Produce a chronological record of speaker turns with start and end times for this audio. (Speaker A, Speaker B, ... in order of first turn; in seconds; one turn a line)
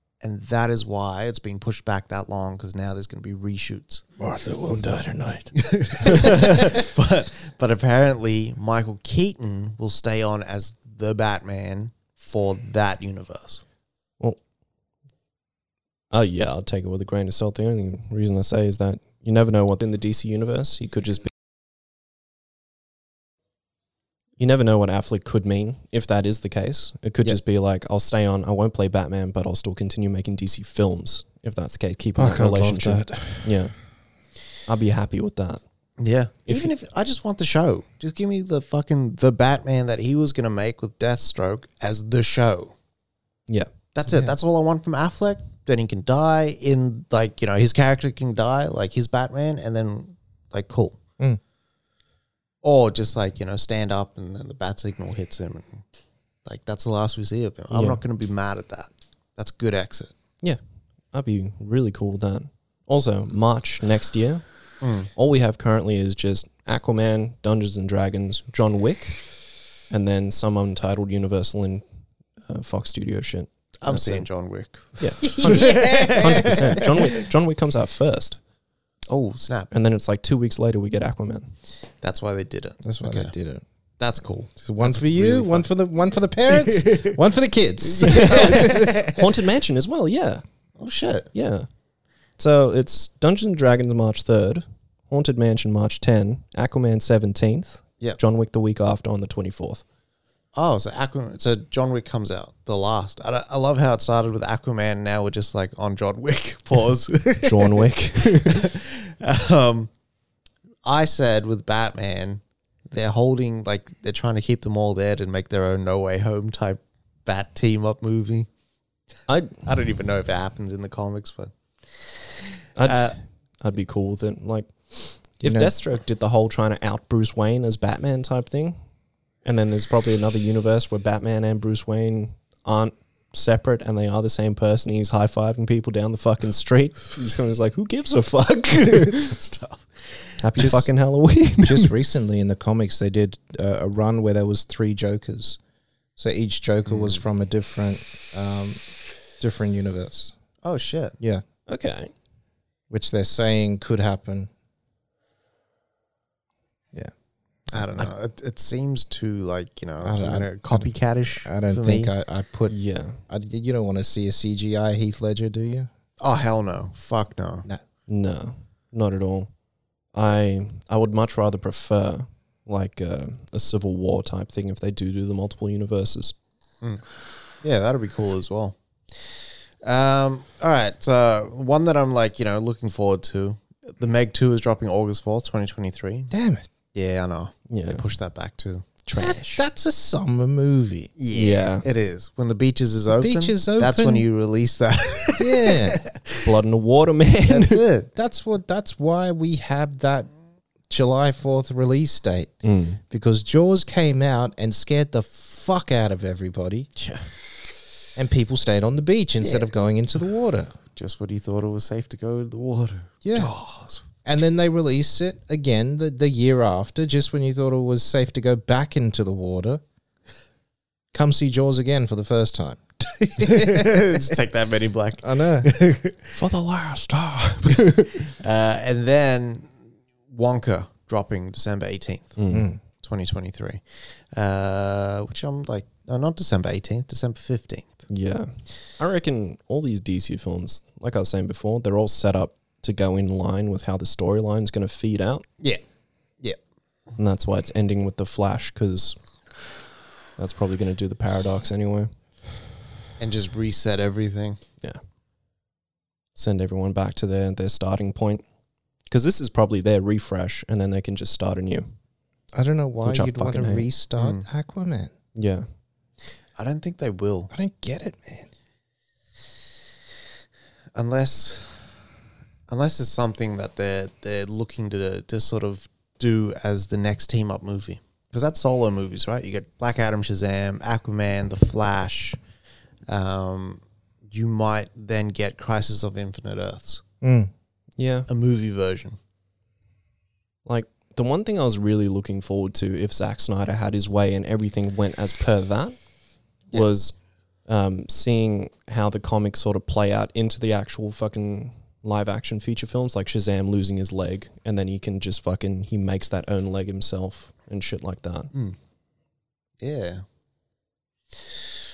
Speaker A: 0.2-4.0
Speaker B: 4.2-5.5
Speaker A: 5.6-13.6
Speaker C: 6.2-6.8
Speaker C: 16.1-21.3
Speaker C: 24.4-33.8
Speaker B: 32.2-33.5
Speaker C: 34.7-35.6
Speaker A: 36.0-42.8
Speaker A: 43.9-51.0
Speaker B: 44.1-44.3
Speaker A: 52.6-55.8
Speaker A: 56.5-60.1
Speaker C: 57.7-58.0
Speaker C: 61.1-69.3
Speaker A: 64.8-65.1
Speaker C: 69.9-71.8
Speaker C: 72.5-74.3
Speaker A: 73.8-77.2
Speaker C: 75.0-78.4
Speaker B: 75.2-76.9
Speaker A: 79.1-79.7
Speaker C: 79.7-81.5
Speaker A: 82.0-83.3
Speaker B: 82.8-83.6
Speaker A: 84.0-85.7
Speaker B: 84.6-89.0
Speaker A: 86.7-87.1
Speaker A: 87.8-89.2
Speaker C: 88.0-90.4
Speaker A: 90.8-91.3
Speaker C: 91.3-91.7
Speaker C: 92.4-99.8
Speaker A: 100.5-109.9
Speaker C: 107.4-108.7
Speaker A: 110.8-118.5
Speaker C: 119.3-119.6
Speaker A: 119.6-122.2
Speaker C: 122.8-128.8
Speaker A: 122.8-123.2
Speaker B: 125.4-125.7
Speaker C: 129.4-139.4
Speaker A: 138.8-140.7
Speaker C: 140.4-141.9
Speaker B: 140.6-140.9
Speaker B: 141.6-145.6
Speaker B: 146.2-148.8
Speaker A: 146.9-147.2
Speaker B: 149.4-150.3
Speaker A: 150.6-151.2
Speaker C: 151.7-152.1
Speaker B: 152.9-154.5
Speaker A: 157.7-162.1
Speaker B: 157.8-158.1
Speaker B: 160.0-162.8
Speaker C: 162.7-163.2
Speaker B: 163.3-165.9
Speaker A: 166.2-167.7
Speaker C: 168.1-169.5
Speaker C: 170.1-176.3
Speaker A: 177.6-186.3
Speaker B: 186.3-186.7
Speaker A: 186.9-189.3
Speaker C: 187.7-188.0
Speaker C: 189.1-189.6
Speaker B: 189.2-191.1
Speaker A: 191.2-196.5
Speaker C: 191.3-191.9
Speaker B: 193.1-194.3
Speaker B: 195.4-196.0
Speaker C: 196.4-197.8
Speaker A: 197.5-198.1
Speaker B: 198.2-200.3
Speaker B: 200.9-206.9
Speaker C: 202.6-203.0
Speaker B: 208.2-210.7
Speaker A: 211.0-214.0
Speaker B: 213.2-213.5
Speaker B: 214.2-219.8
Speaker B: 221.1-224.2
Speaker A: 223.4-226.2
Speaker B: 225.2-225.7
Speaker C: 226.3-228.3
Speaker A: 228.2-229.8
Speaker A: 230.3-232.4
Speaker C: 232.4-232.7
Speaker B: 232.5-232.8
Speaker A: 233.0-238.0
Speaker C: 238.1-245.5
Speaker C: 247.2-249.2
Speaker C: 250.4-252.1
Speaker A: 253.2-254.6
Speaker C: 256.4-258.4
Speaker C: 259.1-261.9
Speaker B: 262.5-265.1
Speaker C: 263.0-263.9
Speaker A: 264.2-264.5
Speaker C: 265.4-265.7
Speaker A: 266.6-267.5
Speaker B: 267.5-268.5
Speaker A: 270.9-271.9
Speaker A: 272.7-282.4
Speaker A: 283.1-287.0
Speaker B: 287.2-287.5
Speaker C: 288.0-288.3
Speaker A: 288.3-289.2
Speaker C: 290.7-296.0
Speaker C: 296.7-297.1
Speaker C: 297.7-308.5
Speaker A: 309.8-310.2